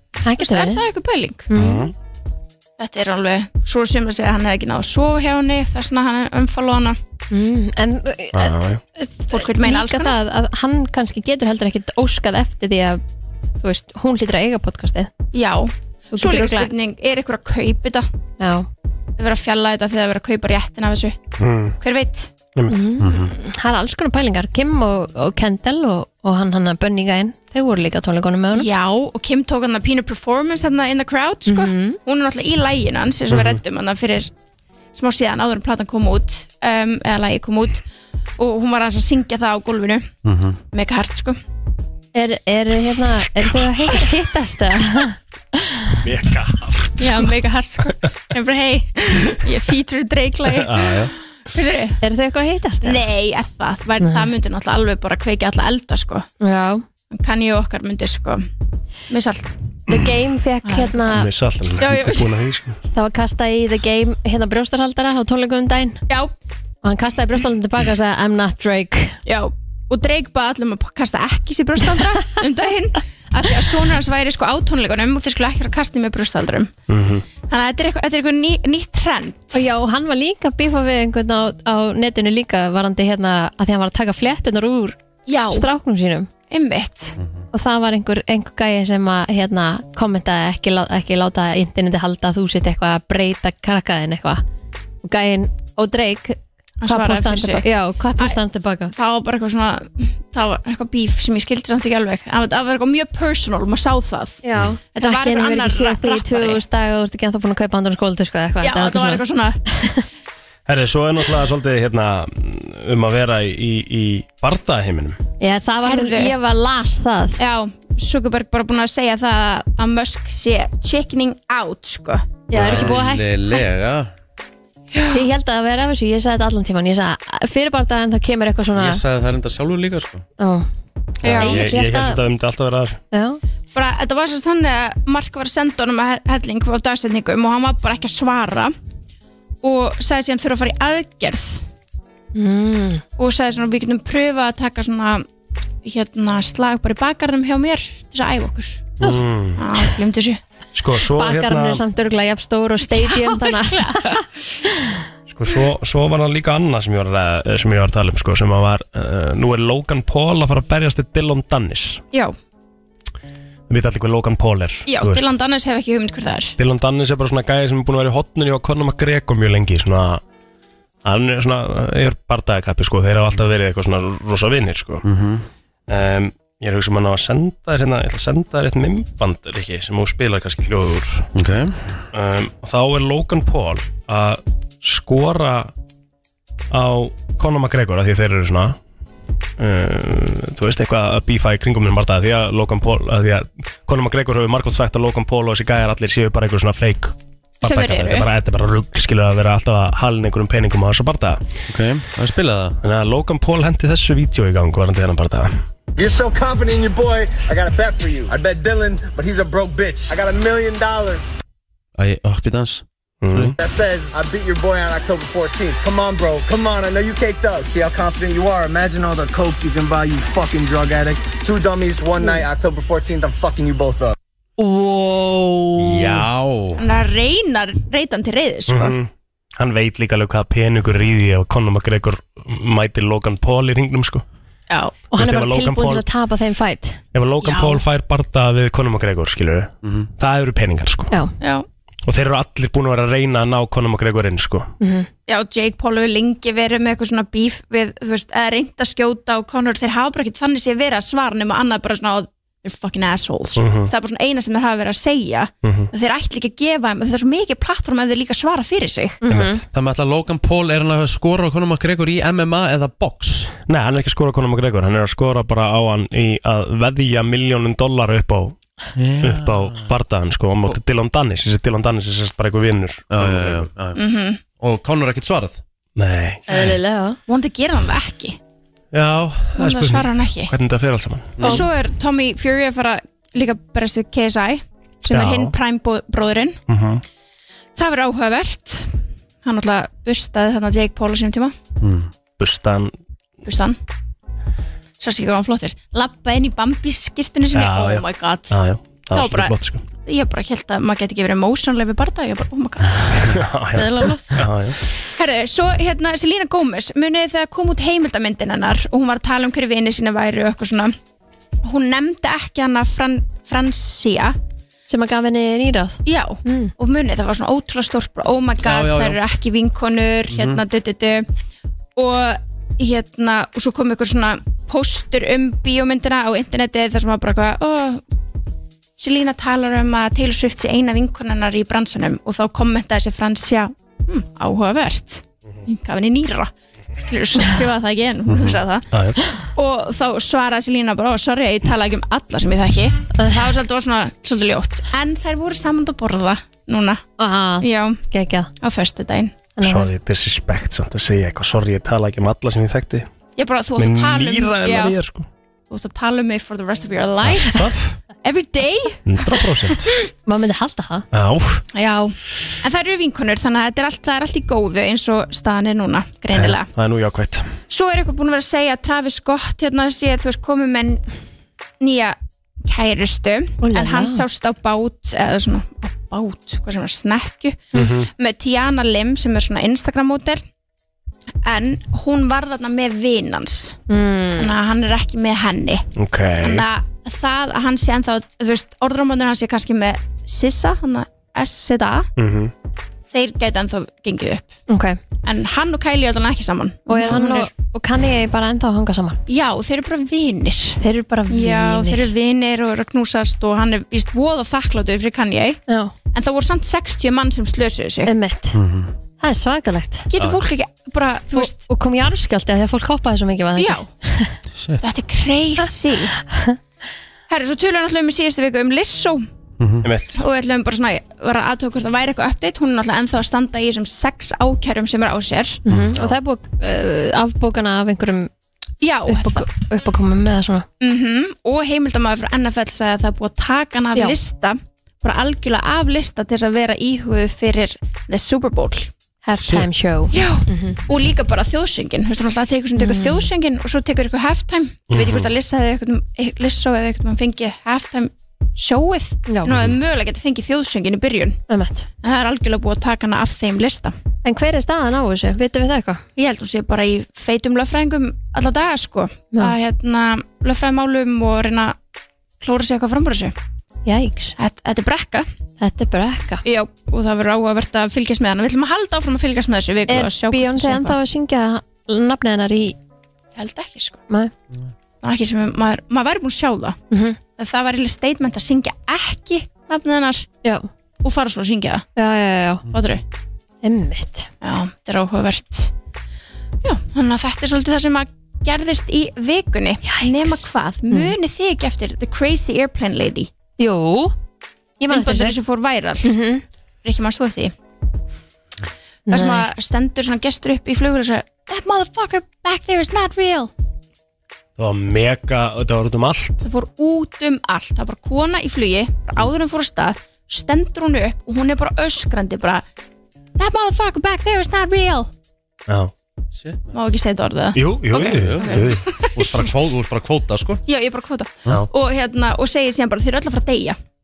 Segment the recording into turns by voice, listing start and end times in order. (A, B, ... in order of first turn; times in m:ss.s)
0:00.2-0:00.8 A
0:00.4-0:01.5 B
0:01.5-0:01.9 A
0:01.6-0:01.9 C
0:02.8-0:07.0 B
0:07.3-0:13.0 A
0:08.3-0:08.8 C
0:09.3-0:10.2 B
0:13.6-0:15.1 A
0:15.3-0:18.1 B
0:16.1-0:16.7 A
0:18.4-0:18.7 A
0:19.2-0:21.2 B
0:21.4-0:21.8 C
0:21.8-0:22.3 B
0:22.6-0:22.8 C
0:22.7-0:28.7 A
0:23.0-0:23.3 D
0:28.5-0:34.3 B
0:31.5-0:32.0 A
0:34.9-0:37.8 B
0:38.4-0:40.1 B
0:40.2-0:40.6 D
0:40.7-0:41.4 B
0:42.2-0:45.9 A
0:46.0-0:47.3 C
0:47.0-0:52.0 B
0:50.5-0:51.1 C
0:52.0-0:53.0 A
0:52.8-0:56.3 B
0:54.0-0:54.3 A
0:56.4-0:56.8 A
0:57.1-0:58.4 B
0:59.1-0:59.5 B
0:59.9-1:01.3 A
1:00.6-1:01.1 B
1:01.1-1:02.8 C
1:01.8-1:02.3 B
1:02.9-1:06.0 A
1:06.8-1:09.2 A
1:09.3-1:16.7 B
1:16.9-1:17.3 C
1:17.4-1:19.6 B
1:19.5-1:25.0 A
1:25.3-1:25.7 B
1:25.5-1:26.3 A
1:26.5-1:27.2 B
1:27.5-1:34.4 A
1:35.0-1:38.9 A
1:36.8-1:37.7 B
1:38.9-1:46.6 B
1:44.4-1:50.0 A
1:48.6-1:49.6 B
1:50.7-1:55.2 C
1:55.4-1:57.4 A
1:55.8-1:56.4 B
1:57.4-2:02.4 B
2:02.5-2:03.6 A
2:02.5-2:03.0 C
2:02.6-2:04.1 D
2:04.9-2:05.3 B
2:05.1-2:09.0 A
2:08.8-2:10.3 D
2:10.4-2:10.7 A
2:11.2-2:11.7 B
2:11.2-2:13.0 C
2:11.2-2:12.2 A
2:13.1-2:13.4 A
2:13.7-2:18.7 B
2:19.6-2:21.6 B
2:22.4-2:23.0 A
2:23.2-2:25.3 B
2:25.8-2:28.9 B
2:29.0-2:29.6 C
2:29.6-2:30.4 B
2:30.7-2:31.8 C
2:31.2-2:33.9 A
2:32.9-2:34.2 B
2:35.3-2:42.0 C
2:43.7-2:45.2 C
2:44.9-2:46.5 B
2:46.6-2:50.2 C
2:51.0-2:55.0 C
2:55.0-2:55.5 D
2:55.9-3:01.3 C
3:01.4-3:02.0 D
3:02.1-3:05.7 C
3:06.7-3:08.8 C
3:09.6-3:21.4 C
3:17.6-3:18.3 B
3:21.7-3:22.8 D
3:22.8-3:25.6 C
3:26.0-3:31.3 E
3:32.0-3:33.6 D
3:33.2-3:33.6 C
3:33.6-3:44.1 E
3:44.6-3:46.2 A
3:45.8-3:46.8 D
3:46.8-3:49.0 B
3:48.7-3:54.2 C
3:54.7-3:55.0 B
3:55.1-3:57.0 A
3:55.2-3:56.1 C
3:57.1-4:01.1 C
3:57.4-3:57.8 B
3:59.8-4:00.1 D
4:01.4-4:01.7 B
4:02.0-4:04.7 C
4:04.8-4:05.1 A
4:05.3-4:19.2 B
4:13.6-4:13.9 C
4:15.6-4:15.9 C
4:19.2-4:19.6 A
4:19.3-4:19.6 C
4:19.7-4:23.5 D
4:23.7-4:28.6 C
4:29.0-4:29.9 D
4:29.2-4:33.7 C
4:33.1-4:34.0 D
4:34.0-4:34.4 B
4:34.6-4:35.6 D
4:36.0-4:36.4 C
4:36.5-4:37.2 A
4:37.3-4:38.4 B
4:38.9-4:41.4 C
4:39.6-4:40.5 B
4:41.4-4:41.6 D
4:41.4-4:46.6 B
4:45.1-4:45.5 C
4:46.7-4:47.0 C
4:47.8-4:51.6 B
4:51.8-4:52.1 D
4:52.4-4:52.9 C
4:53.4-4:53.8 B
4:55.0-5:04.5 B
4:57.5-4:59.8 C
5:03.3-5:04.8 C
5:05.0-5:11.0 B
5:11.6-5:14.4 B
5:14.9-5:16.7 A
5:16.0-5:21.3 B
5:18.6-5:19.2 D
5:20.3-5:20.6 D
5:22.0-5:28.0 B
5:29.0-5:38.9 B
5:38.3-5:38.6 D
5:38.9-5:39.2 C
5:39.6-5:47.0 B
5:47.2-5:48.5 A
5:47.6-5:48.0 B
5:48.6-5:49.4 B
5:49.6-5:49.9 A
5:49.6-5:53.1 C
5:53.4-5:55.0 B
5:53.8-5:55.3 C
5:55.7-5:57.7 B
5:57.2-5:58.0 C
5:58.2-5:59.0 B
5:59.1-5:59.9 C
6:00.3-6:01.1 A
6:01.1-6:01.6 C
6:01.7-6:06.7 B
6:06.3-6:07.5 C
6:07.7-6:11.0 B
6:11.8-6:20.4 B
6:13.6-6:14.2 A
6:17.7-6:18.1 C
6:21.4-6:23.8 B
6:23.9-6:24.5 A
6:24.4-6:25.8 B
6:26.0-6:26.7 C
6:26.4-6:32.1 B
6:32.2-6:32.5 C
6:33.1-6:34.5 B
6:34.7-6:35.0 A
6:35.2-6:37.5 B
6:36.9-6:39.2 A
6:39.3-6:45.6 B
6:40.8-6:42.1 A
6:45.7-6:45.9 A
6:46.1-6:48.1 B
6:48.0-6:48.6 A
6:48.5-6:48.9 D
6:49.2-6:50.1 A
6:50.1-6:51.6 B
6:51.3-6:54.4 A
6:53.6-6:53.9 B
6:54.5-6:54.8 D
6:54.8-6:56.2 B
6:56.3-6:56.6 A
6:57.3-6:59.2 B
6:59.6-6:59.9 D
6:59.8-7:00.2 C
7:00.1-7:05.6 B
7:05.7-7:08.3 A
7:05.7-7:06.0 D
7:08.8-7:09.5 B
7:09.1-7:10.7 A
7:10.8-7:18.9 B
7:19.2-7:20.8 A
7:20.1-7:31.4 B
7:22.8-7:23.3 A
7:24.9-7:25.3 C
7:29.3-7:29.5 A
7:31.5-7:31.9 A
7:32.0-7:34.0 B
7:34.2-7:36.0 A
7:36.2-7:41.8 B
7:42.4-7:43.4 B
7:43.9-7:44.4 A
7:44.4-7:45.3 B
7:45.6-7:46.4 A
7:46.4-7:51.0 B
7:49.9-7:52.8 A
7:53.4-7:54.0 B
7:55.0-7:56.8 B
7:56.9-7:57.2 A
7:57.3-8:00.3 B
8:01.0-8:01.8 B
8:02.0-8:02.6 A
8:02.7-8:03.0 B
8:03.6-8:04.3 A
8:04.4-8:05.7 B
8:06.6-8:13.3 B
8:09.8-8:11.1 A
8:13.6-8:14.2 A
8:14.8-8:15.4 A
8:14.9-8:16.2 B
8:16.0-8:16.4 A
8:16.8-8:17.5 B
8:19.1-8:19.5 A
8:19.1-8:23.5 B
8:24.6-8:26.4 C
8:26.4-8:32.6 B
8:33.4-8:35.1 B
8:36.4-8:36.8 D
8:36.7-8:39.5 B
8:37.6-8:38.8 C
8:38.0-8:40.6 D
8:40.7-8:43.8 B